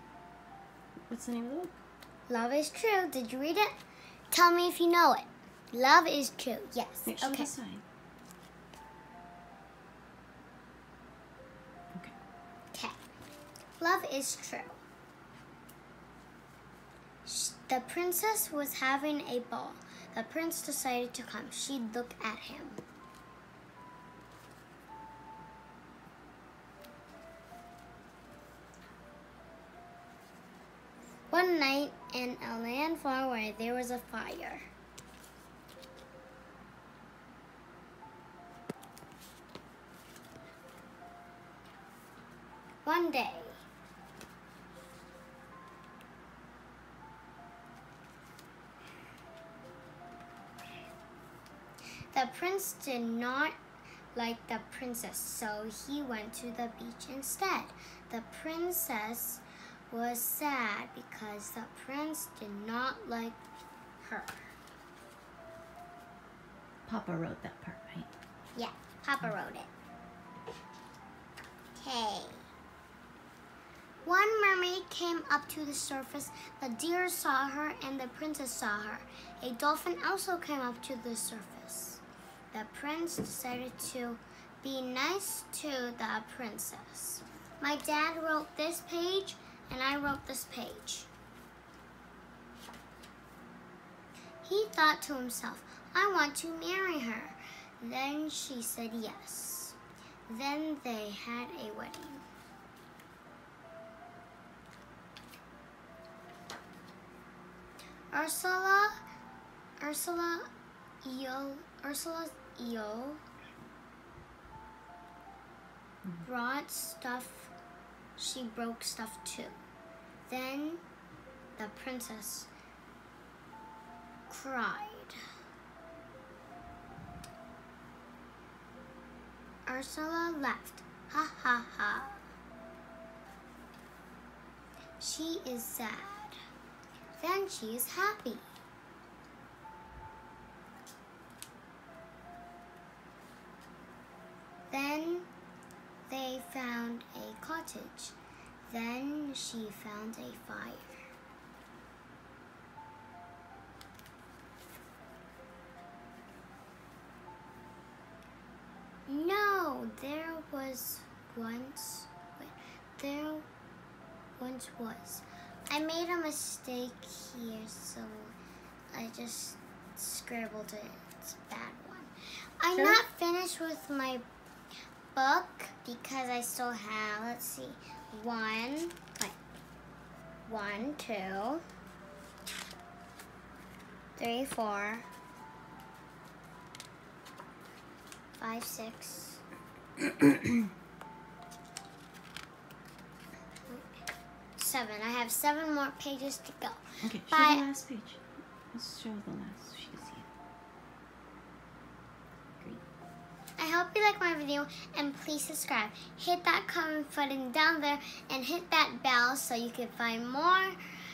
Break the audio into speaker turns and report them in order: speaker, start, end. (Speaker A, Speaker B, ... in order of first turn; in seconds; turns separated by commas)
Speaker A: 1.1-1.7, Speaker B: 2.3-3.7, Speaker B: 4.3-7.5, Speaker A: 7.0-7.8, Speaker B: 13.8-14.8, Speaker B: 17.2-22.8, Speaker B: 31.3-34.7, Speaker B: 42.8-43.6, Speaker B: 52.1-53.6, Speaker B: 54.1-63.4, Speaker B: 64.0-64.5, Speaker A: 66.8-68.1, Speaker B: 68.5-69.7, Speaker B: 71.8-72.5, Speaker B: 74.0-91.1, Speaker B: 94.4-99.8, Speaker B: 100.3-102.2, Speaker B: 108.1-108.9, Speaker B: 109.8-110.5, Speaker B: 111.0-113.2, Speaker B: 116.2-117.5, Speaker B: 118.2-119.6, Speaker B: 120.3-120.8, Speaker B: 121.6-122.5, Speaker B: 124.3-125.2, Speaker B: 129.7-132.2, Speaker B: 135.0-136.4, Speaker B: 137.2-138.5, Speaker B: 144.7-145.3, Speaker B: 146.1-148.1, Speaker B: 148.7-151.0, Speaker B: 159.1-163.4, Speaker B: 164.4-168.3, Speaker B: 168.9-174.2, Speaker A: 172.7-173.0, Speaker B: 175.1-179.3, Speaker B: 180.4-181.6, Speaker B: 184.2-185.1, Speaker B: 188.4-189.4, Speaker B: 193.7-194.0, Speaker B: 194.6-197.7, Speaker A: 197.0-198.2, Speaker A: 198.7-200.3, Speaker B: 203.6-210.8